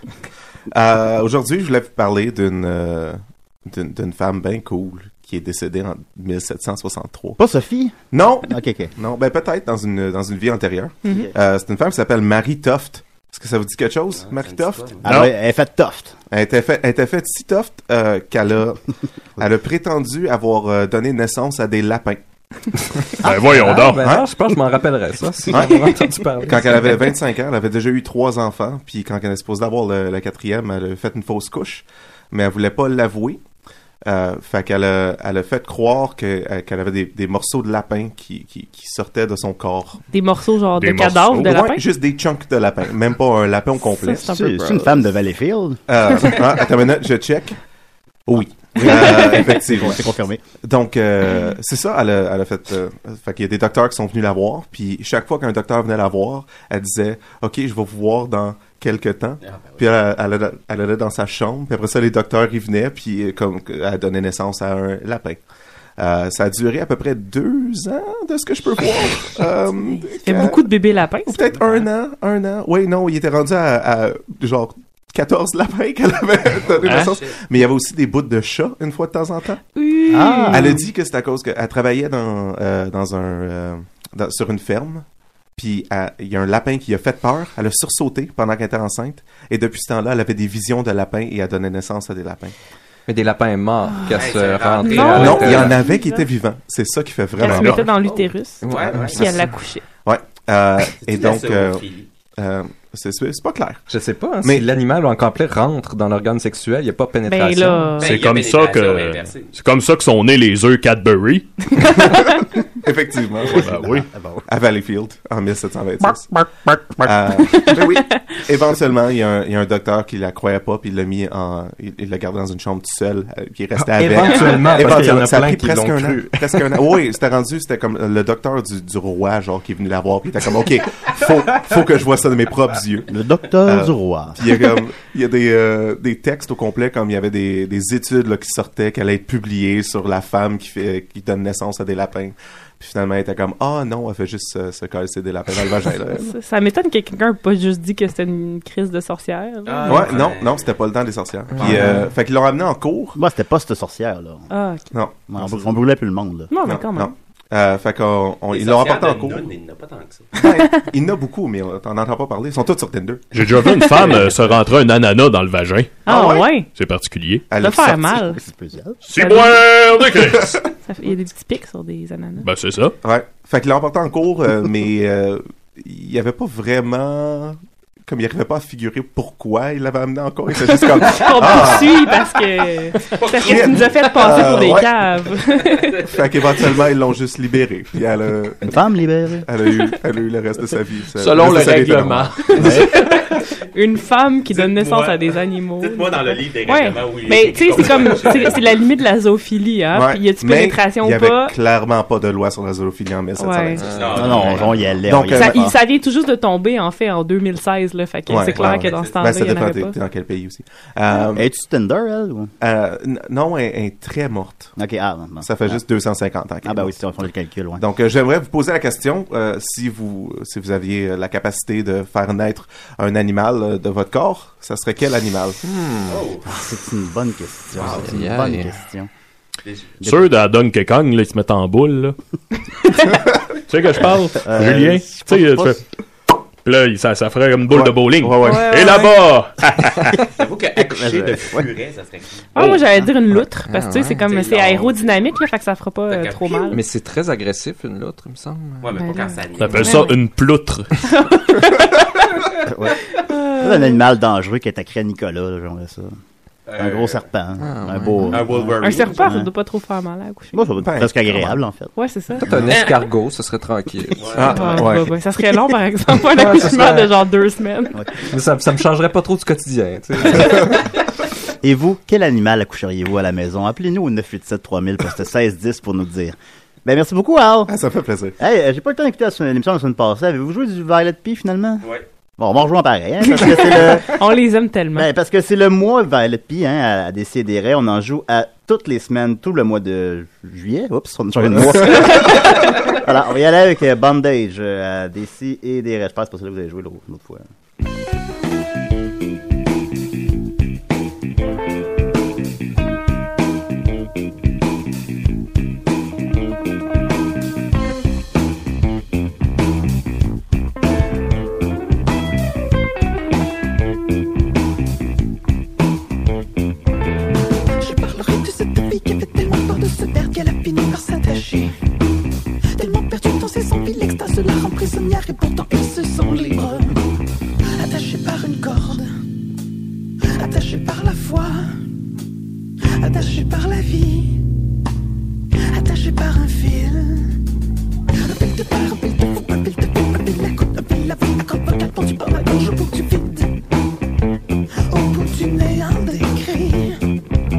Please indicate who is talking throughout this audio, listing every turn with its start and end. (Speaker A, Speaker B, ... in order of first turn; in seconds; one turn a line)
Speaker A: 0.7-7.4
Speaker B: 7.4-8.9
Speaker A: 8.1-15.3
Speaker C: 14.2-15.1
Speaker B: 15.0-16.1
Speaker A: 16.3-18.8
Speaker A: 19.4-22.2
Speaker D: 23.2-24.0
Speaker E: 23.5-27.1
Speaker A: 24.0-24.3
Speaker A: 25.5-33.4
Speaker A: 34.0-40.1
Speaker F: 40.1-41.8
Speaker A: 40.8-44.4
Speaker F: 43.8-45.1
Speaker B: 44.3-45.8
Speaker A: 45.9-47.6
Speaker A: 48.3-50.0
Speaker B: 48.5-50.4
Speaker A: 50.6-65.4
Speaker C: 59.4-59.8
Speaker A: 66.0-70.7
Speaker F: 70.2-71.4
Speaker A: 71.2-79.6
Speaker C: 76.8-77.4
Speaker F: 79.8-80.8
Speaker B: 80.1-80.8
Speaker A: 80.5-85.0
Speaker A: 85.6-92.5
Speaker E: 93.1-95.8
Speaker C: 94.2-95.7
Speaker F: 94.8-96.3
Speaker A: 95.2-97.9
Speaker F: 97.4-99.8
Speaker C: 98.1-99.2
Speaker E: 98.6-99.1
Speaker A: 98.7-99.4
Speaker A: 100.0-103.9
Speaker C: 101.0-102.1
Speaker E: 103.9-108.0
Speaker F: 107.3-108.1
Speaker C: 108.0-109.5
Speaker D: 108.0-111.8
Speaker A: 111.8-116.3
Speaker B: 113.5-114.4
Speaker D: 113.6-114.0
Speaker A: 117.0-146.3
Speaker E: 123.8-126.7
Speaker B: 124.8-125.2
Speaker B: 133.1-134.6
Speaker F: 146.1-150.1
Speaker C: 149.7-150.7
Speaker A: 149.9-153.2
Speaker C: 151.6-151.9
Speaker E: 151.6-152.1
Speaker B: 153.2-154.5
Speaker F: 154.5-154.9
Speaker A: 154.9-155.7
Speaker B: 155.3-156.5
Speaker F: 156.5-157.1
Speaker A: 156.6-159.5
Speaker C: 158.5-160.3
Speaker A: 160.3-163.3
Speaker D: 163.3-166.0
Speaker A: 163.9-164.5
Speaker A: 166.1-166.5
Speaker F: 166.1-166.7
Speaker D: 166.8-167.4
Speaker A: 167.5-168.2
Speaker F: 167.6-168.4
Speaker B: 167.9-169.0
Speaker D: 169.1-170.6
Speaker F: 169.2-169.6
Speaker A: 170.2-170.6
Speaker F: 170.8-172.5
Speaker D: 172.4-173.0
Speaker A: 173.0-182.1
Speaker F: 180.7-186.0
Speaker C: 183.2-184.0
Speaker A: 183.4-184.9
Speaker A: 186.0-188.8
Speaker B: 188.6-189.5
Speaker A: 189.4-192.8
Speaker D: 191.2-192.7
Speaker F: 192.6-201.5
Speaker C: 194.5-198.6
Speaker A: 199.9-205.7
Speaker F: 203.4-203.8
Speaker E: 203.8-204.7
Speaker C: 203.8-204.9
Speaker B: 204.1-205.8
Speaker F: 205.3-209.9
Speaker A: 208.3-211.5
Speaker C: 208.4-209.2
Speaker B: 211.2-212.5
Speaker A: 212.6-214.7
Speaker B: 214.8-215.8
Speaker A: 215.4-217.0
Speaker B: 216.6-217.8
Speaker A: 217.8-225.6
Speaker E: 225.7-226.2
Speaker C: 226.1-226.5
Speaker B: 226.5-229.1
Speaker A: 227.8-228.1
Speaker E: 227.8-228.7
Speaker C: 229.7-230.0
Speaker D: 230.0-232.2
Speaker D: 233.7-235.8
Speaker B: 234.4-235.8
Speaker D: 236.7-240.2
Speaker A: 237.7-238.9
Speaker F: 238.4-239.2
Speaker C: 240.4-242.5
Speaker B: 240.8-241.7
Speaker F: 242.6-246.8
Speaker E: 243.7-244.3
Speaker C: 244.3-245.2
Speaker C: 246.1-246.7
Speaker E: 246.7-248.9
Speaker C: 248.8-249.9
Speaker F: 248.9-250.2
Speaker D: 249.6-250.9
Speaker F: 251.0-252.0
Speaker B: 252.7-253.0
Speaker F: 253.3-254.0
Speaker B: 253.5-256.1
Speaker C: 256.7-257.2
Speaker B: 256.8-259.5
Speaker E: 257.6-258.4
Speaker C: 258.3-259.3
Speaker F: 258.8-260.6
Speaker B: 260.5-261.9
Speaker A: 260.8-261.6
Speaker F: 262.0-262.4
Speaker E: 262.4-264.4
Speaker C: 264.2-264.9
Speaker A: 264.4-265.1
Speaker F: 264.5-268.0
Speaker E: 266.3-267.2
Speaker E: 268.3-270.8
Speaker B: 271.6-277.7
Speaker A: 277.7-278.4
Speaker B: 278.4-281.9
Speaker B: 282.4-284.2
Speaker F: 283.3-285.1
Speaker B: 284.9-297.5
Speaker G: 317.8-321.7
Speaker G: 322.8-327.0
Speaker G: 327.8-329.1
Speaker G: 330.4-331.7
Speaker G: 333.0-334.4
Speaker G: 335.7-337.4
Speaker G: 338.3-343.6
Speaker G: 344.9-347.0